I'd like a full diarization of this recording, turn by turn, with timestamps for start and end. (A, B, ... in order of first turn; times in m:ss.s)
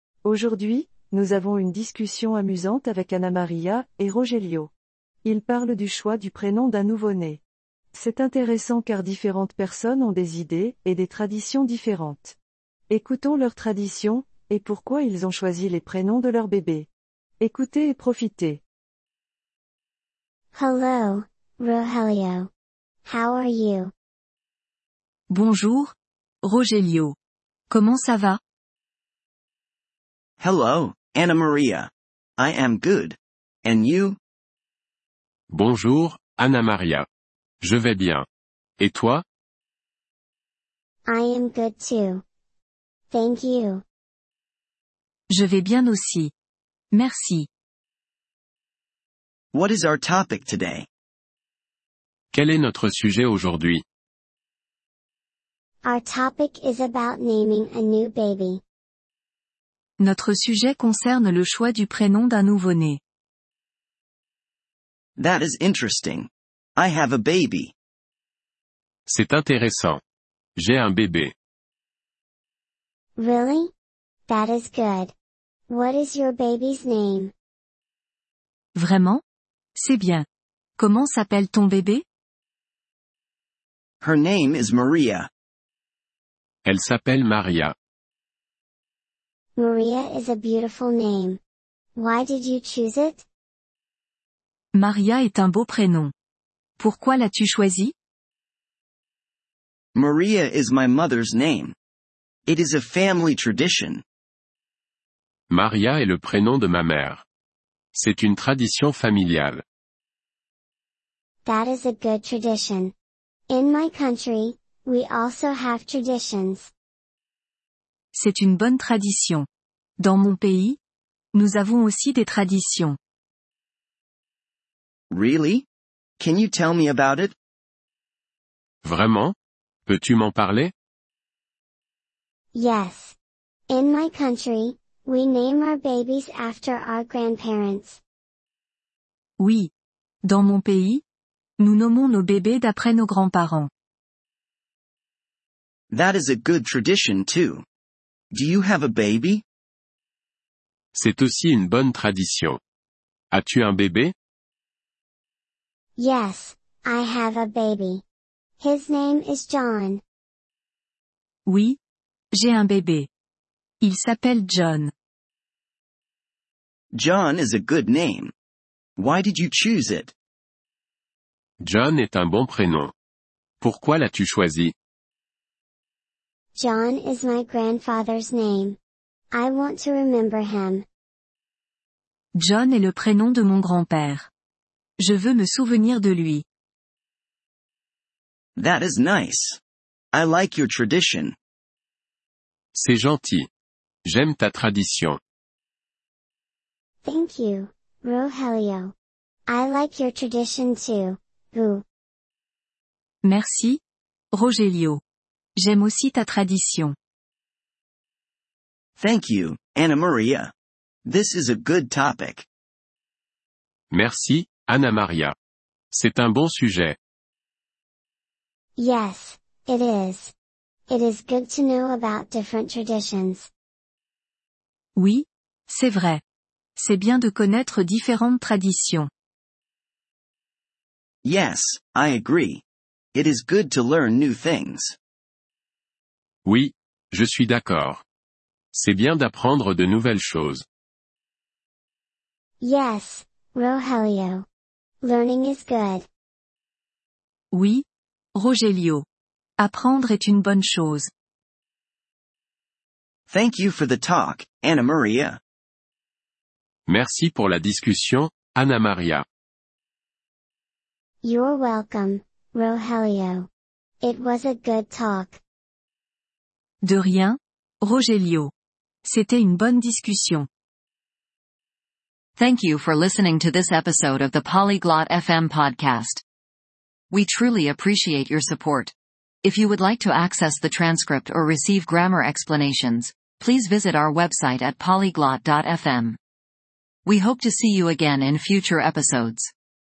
0:00.2-0:04.7 A
0:05.2-0:07.4 A
0:07.9-0:12.4 A
0:12.9-0:16.9 A
0:17.4-0:18.6 A
0:20.5-0:22.5 B
0:23.0-0:23.9 B
0:25.3-0:27.2 C
0:27.7-0:28.4 C
0:30.4-0:34.2 D
0:35.5-0:37.1 E
0:37.6-0:38.3 E
0:38.8-0:39.2 E
0:41.1-0:42.2 B
0:43.1-0:43.8 B
0:45.3-0:46.3 C
0:46.9-0:47.5 C
0:49.5-0:50.9 D
0:52.3-0:53.8 E
0:55.8-0:58.6 B
1:00.0-1:03.0 C
1:05.2-1:07.7 D
1:09.1-1:10.0 E
1:10.6-1:11.3 E
1:13.2-1:13.7 B
1:14.3-1:15.1 B
1:15.7-1:17.3 B
1:18.8-1:19.2 C
1:19.8-1:20.3 C
1:20.8-1:22.0 C
1:24.0-1:25.3 D
1:26.6-1:27.8 E
1:29.6-1:31.4 B
1:32.0-1:33.2 B
1:34.7-1:36.1 C
1:36.8-1:37.9 C
1:40.0-1:41.8 D
1:42.5-1:44.0 D
1:45.5-1:47.2 E
1:47.9-1:49.6 E
1:51.4-1:52.9 B
1:53.5-1:56.7 B
1:58.2-1:59.5 C
2:00.0-2:00.8 C
2:01.3-2:03.0 C
2:05.1-2:05.7 D
2:06.2-2:07.4 D
2:08.8-2:09.4 E
2:09.9-2:10.7 E
2:12.6-2:13.2 B
2:13.7-2:18.0 B
2:19.4-2:19.7 C
2:20.2-2:21.0 C
2:21.6-2:23.7 C
2:25.9-2:27.6 D
2:28.3-2:29.4 D
2:30.9-2:32.6 E
2:33.3-2:34.1 E
2:36.0-2:38.0 B
2:38.6-2:40.0 B
2:41.5-2:41.8 C
2:42.3-2:43.1 C
2:43.8-2:44.9 C
2:46.9-2:48.3 D
2:49.0-2:50.1 D
2:51.6-2:52.9 E
2:53.6-2:54.7 E
2:56.6-2:58.8 B
2:59.3-3:00.8 B
3:02.4-3:04.3 C
3:05.0-3:06.4 C
3:08.6-3:09.6 D
3:10.1-3:11.4 D
3:12.7-3:13.5 E
3:14.1-3:15.2 E
3:17.0-3:18.9 B
3:19.5-3:21.8 B
3:23.2-3:23.8 C
3:24.3-3:25.0 C
3:25.6-3:27.0 C
3:29.0-3:30.5 D
3:31.1-3:32.5 D
3:33.9-3:35.4 E
3:35.9-3:37.0 E
3:38.8-3:40.3 B
3:40.9-3:43.5 B
3:45.0-3:46.2 C
3:46.8-3:49.1 C
3:51.2-3:52.6 D
3:53.1-3:55.0 D
3:56.4-3:58.0 E
3:58.7-4:00.6 E
4:02.6-4:04.5 B
4:05.0-4:06.1 B
4:07.5-4:09.0 C
4:09.6-4:11.1 C
4:13.3-4:15.4 D
4:16.9-4:19.2 E
4:21.2-4:23.5 B
4:24.0-4:25.4 B
4:26.8-4:28.5 C
4:29.0-4:30.5 C
4:32.4-4:36.2 F
4:37.1-4:38.9 F
4:39.4-4:46.2 F
4:47.1-4:49.5 F